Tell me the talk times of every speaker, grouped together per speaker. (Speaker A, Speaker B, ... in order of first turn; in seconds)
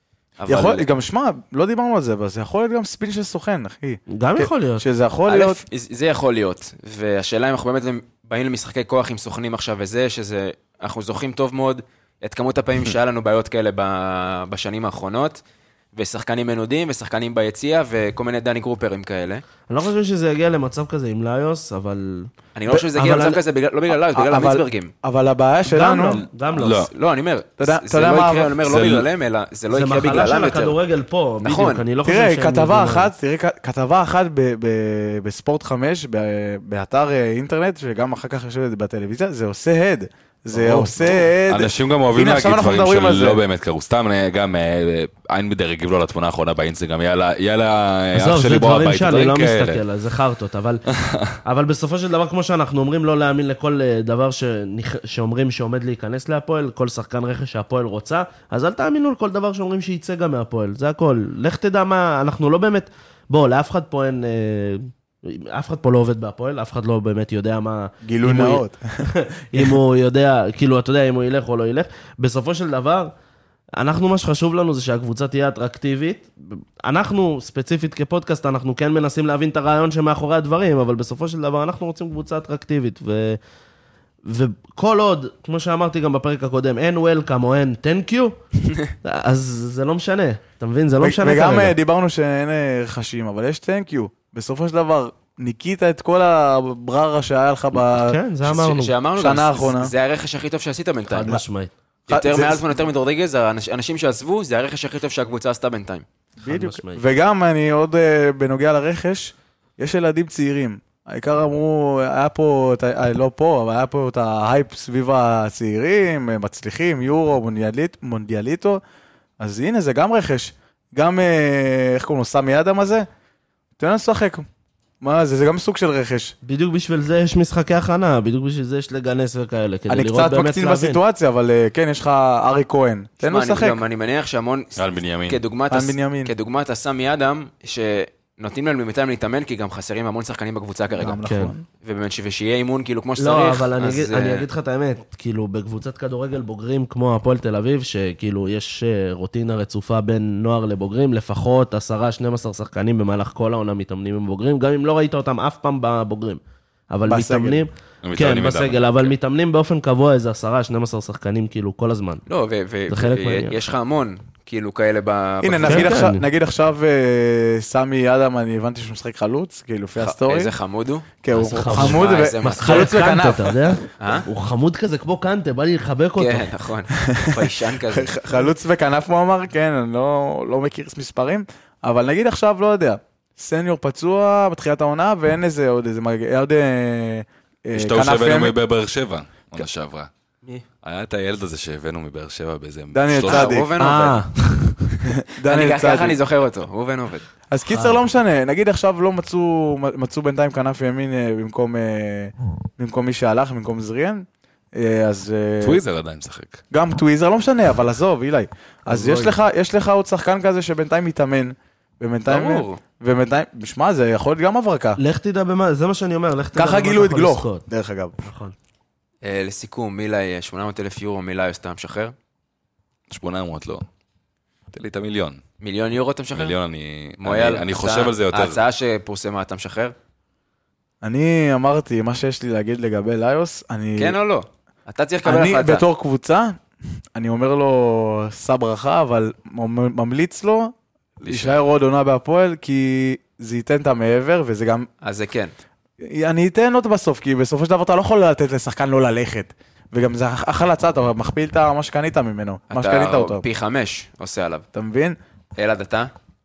Speaker A: 0.4-0.9, 5.3-15.4, 15.9-19.4, 22.5-24.9, 26.6-30.8, 31.4-31.8, 98.4-101.4, 102.1-106.0, 133.2-141.2, 141.8-144.5, 162.3-166.0, 169.9-172.9, 174.0-174.3, 176.2-178.4, 193.2-194.2, 195.4-197.2, 212.2-212.8, 219.2-222.1, 225.6-226.5, 227.2-229.9, 234.0-235.8, 245.0-245.5, 252.7-254.7, 255.6-256.1
Speaker B: 0.5-5.6, 22.7-23.3, 24.1-26.2, 27.6-28.6, 32.0-43.4, 68.0-69.8, 91.0-98.2, 99.2-99.9, 102.1-102.6, 106.4-118.8, 119.4-123.1, 123.8-124.4, 125.0-126.3, 129.9-133.8, 135.7-136.3, 140.9-141.7, 157.1-157.6, 165.4-170.5, 171.2-173.8, 177.1-188.5, 192.9-193.7, 195.2-196.2, 197.5-205.8, 206.7-215.0, 216.6-218.2, 231.0-234.2, 235.2-236.6, 237.1-240.7, 241.2-244.9, 246.0-253.4, 254.7-255.2
Speaker C: 4.1-4.9, 19.7-22.3, 22.9-23.4, 25.6-26.9, 29.7-33.1, 40.5-41.2, 48.1-50.9, 51.4-73.1, 73.8-83.4, 84.2-88.3, 89.0-91.8, 97.7-98.9, 101.1-101.7, 106.4-107.0, 126.4-131.0, 141.2-141.5, 143.2-162.2, 162.9-163.6, 165.6-166.3, 171.3-176.5, 193.8-194.8, 197.7-198.0, 208.8-209.4, 215.0-217.6, 218.2-218.5
Speaker D: 26.5-26.9, 28.6-29.1, 41.5-49.8, 50.9-51.4, 134.8-135.4, 158.0-159.1, 187.7-190.1, 190.8-193.6, 205.6-206.6, 223.1-223.8, 224.7-225.4, 226.3-228.6, 241.2-241.6